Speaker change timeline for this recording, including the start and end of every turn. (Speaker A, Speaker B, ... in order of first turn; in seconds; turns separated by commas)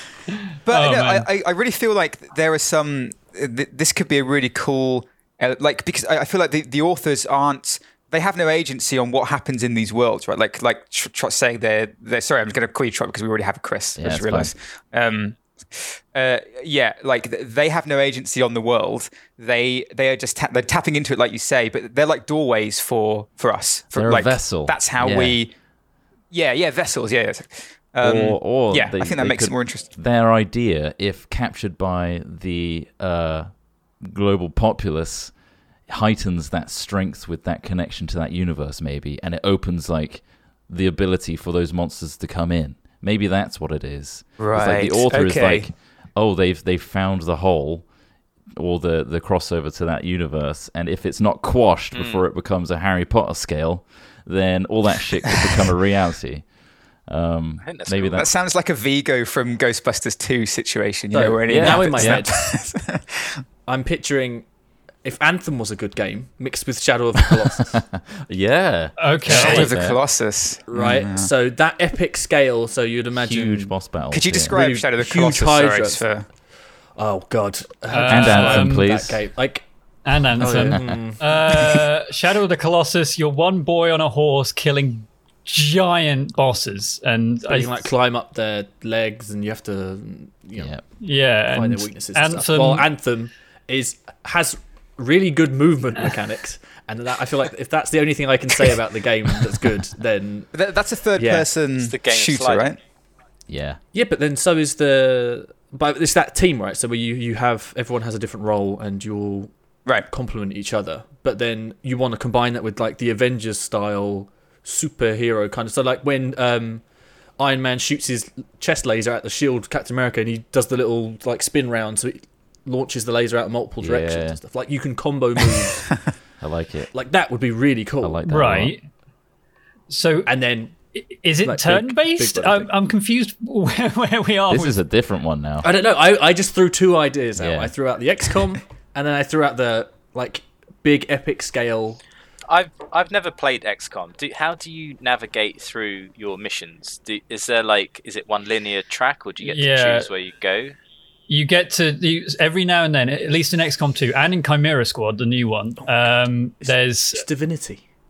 Speaker A: 0.7-25.5, Speaker B: 0.7-1.3, Speaker C: 14.0-14.5, Speaker C: 23.9-25.4, Speaker A: 26.3-29.9, Speaker C: 28.0-35.3, Speaker C: 35.9-47.9, Speaker A: 44.4-45.7, Speaker C: 48.5-56.5, Speaker D: 51.9-52.2, Speaker C: 57.1-58.3, Speaker D: 57.6-58.3, Speaker A: 58.1-63.4, Speaker E: 61.1-62.4, Speaker C: 61.5-62.3, Speaker E: 63.7-64.5, Speaker E: 65.0-67.8, Speaker C: 67.3-70.0, Speaker B: 69.0-69.7, Speaker A: 69.3-71.3, Speaker E: 70.7-73.7, Speaker C: 73.1-74.6, Speaker A: 74.1-76.3, Speaker E: 74.5-76.1, Speaker E: 77.0-79.7, Speaker B: 77.9-78.8, Speaker C: 78.1-79.2, Speaker B: 80.0-87.9, Speaker E: 80.4-81.9, Speaker C: 80.7-81.0, Speaker E: 87.5-90.8, Speaker C: 90.6-90.8, Speaker B: 91.0-92.9, Speaker E: 91.4-100.5, Speaker A: 100.5-102.8, Speaker E: 101.2-101.5, Speaker D: 101.8-102.7, Speaker C: 103.5-103.8, Speaker E: 103.9-109.5, Speaker E: 110.1-116.8, Speaker E: 117.4-125.9, Speaker C: 123.8-124.4, Speaker C: 126.4-126.9, Speaker E: 126.9-128.2, Speaker C: 128.0-128.7, Speaker B: 128.3-128.8, Speaker B: 129.9-130.3, Speaker E: 130.3-130.8, Speaker B: 130.9-134.8, Speaker E: 131.4-132.7, Speaker C: 134.5-135.7, Speaker E: 135.6-142.0, Speaker C: 137.4-137.7, Speaker D: 142.5-150.7, Speaker B: 149.4-150.1, Speaker B: 151.3-157.3, Speaker E: 156.6-157.8